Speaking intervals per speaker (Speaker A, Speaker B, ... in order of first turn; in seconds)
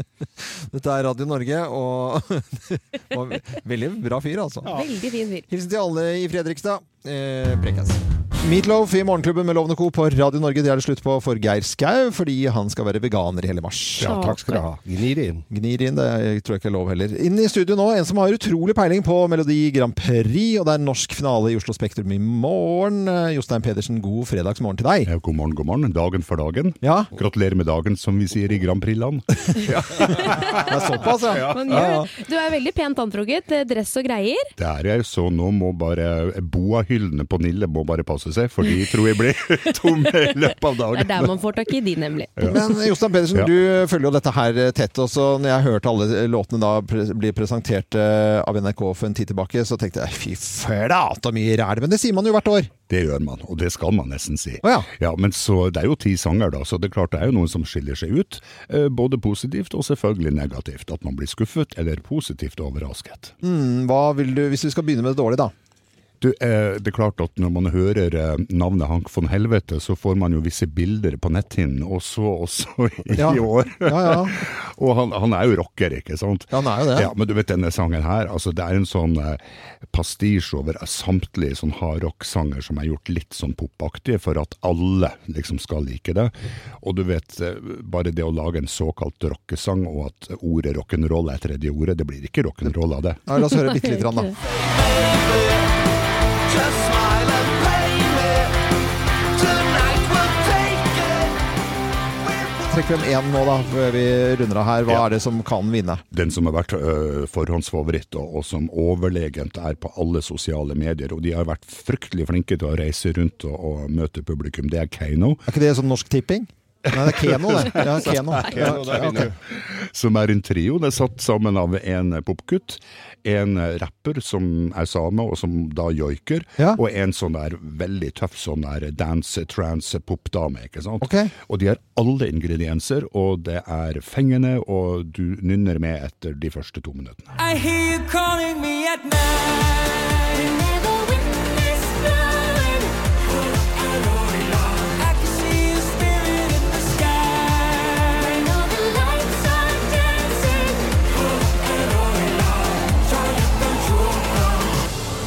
Speaker A: 0.4-4.8, 5.5-14.4, 15.5-25.1, 26.8-27.1, 29.5-32.1, 42.4-52.7, 54.6-54.9, 63.4-65.5, 73.2-74.4, 76.5-77.1, 93.3-94.3, 102.7-106.0, 115.5-119.3, 131.0-131.3
Speaker B: 4.7-5.5, 14.0-14.7, 31.0-34.5, 39.9-40.3, 40.9-42.6, 93.4-94.3
Speaker C: 14.0-15.4, 30.1-31.9, 118.4-119.4
Speaker D: 25.1-29.6, 34.6-41.4, 52.9-63.4, 66.2-93.2, 106.1-115.4, 117.1-118.3, 119.5-137.3
Speaker E: 94.9-95.5, 96.5-98.5, 99.4-101.3, 137.4-154.8